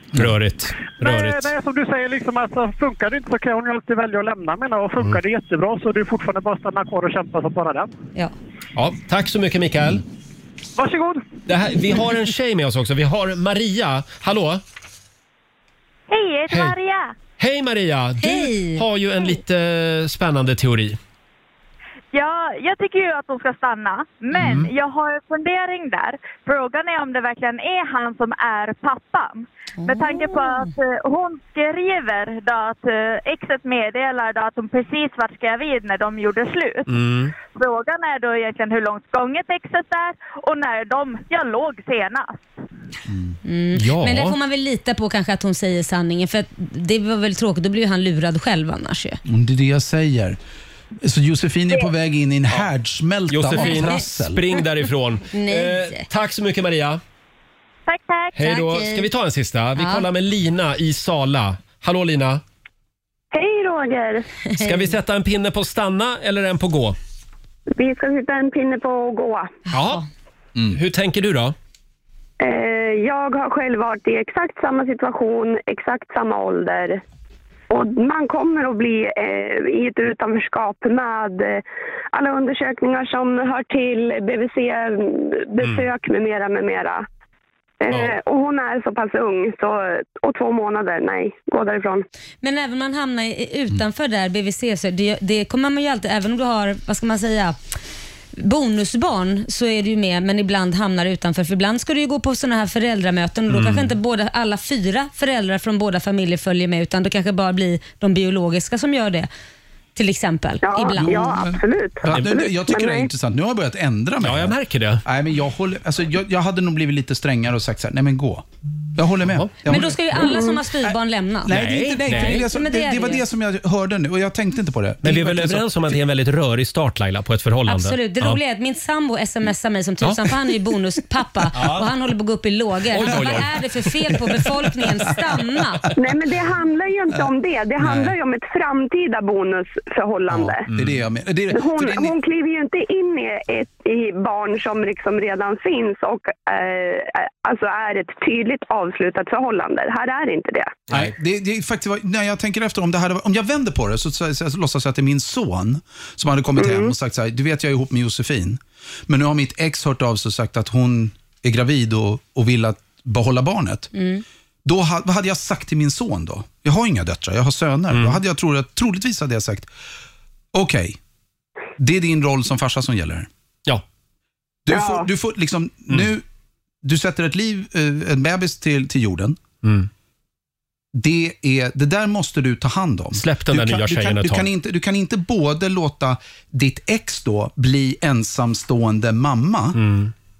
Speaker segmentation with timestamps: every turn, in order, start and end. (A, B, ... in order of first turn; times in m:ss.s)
0:00.1-0:01.5 A
0:01.0-0:07.9 B
0:08.8-0:10.0 A
0:10.8-0:11.2 B
0:11.5-0:14.6 A
0:16.1-0:17.1 C
0:17.4-0:21.0 A
0:18.2-0:18.8 D
0:22.1-0:36.9 C
0:24.4-0:24.7 A
0:29.8-0:30.7 D
0:36.9-0:37.3 A
0:37.5-0:42.4 C
0:43.4-0:49.2 D
0:43.8-0:44.4 A
0:49.2-0:50.4 E
0:51.0-0:54.4 E
0:53.3-0:57.0 A
0:53.6-0:54.0 D
0:55.3-0:56.0 D
0:57.9-0:58.3 C
0:58.3-1:02.4 A
0:58.4-0:59.1 D
0:59.8-1:00.0 D
1:03.3-1:04.2 F
1:04.5-1:04.9 D
1:04.6-1:07.0 A
1:07.7-1:09.5 F
1:09.7-1:10.0 A
1:09.7-1:10.0 D
1:10.7-1:11.5 A
1:12.4-1:17.0 F
1:17.7-1:21.6 F
1:22.1-1:27.0 F
1:25.6-1:25.9 A
1:27.8-1:32.0 F
1:27.9-1:28.2 A
1:32.4-1:37.6 D
1:38.3-1:49.3 D
1:43.5-1:43.9 A
1:50.0-1:51.3 D
1:50.6-1:53.1 F
1:51.0-2:06.0 E
1:54.2-1:55.0 A
1:59.7-2:01.5 D
2:01.5-2:02.4 A
2:02.0-2:03.2 D
2:05.0-2:08.4 A
2:07.7-2:15.8 D
2:11.5-2:11.9 A
2:12.9-2:13.6 A
2:16.0-2:20.6 F
2:17.8-2:18.1 E
2:20.5-2:21.0 A
2:20.7-2:22.1 E
2:21.5-2:30.7 F
2:30.9-2:43.9 E
2:36.6-2:36.9 F
2:43.9-2:44.2 D
2:44.6-2:49.7 E
2:47.9-2:48.2 A
2:50.5-2:51.0 E
2:51.8-2:53.3 E
2:54.6-2:56.2 E
2:54.7-2:55.0 F
2:56.8-2:59.4 E
2:59.6-2:59.9 A
3:00.9-3:09.8 E
3:03.1-3:04.5 A
3:09.8-3:10.1 A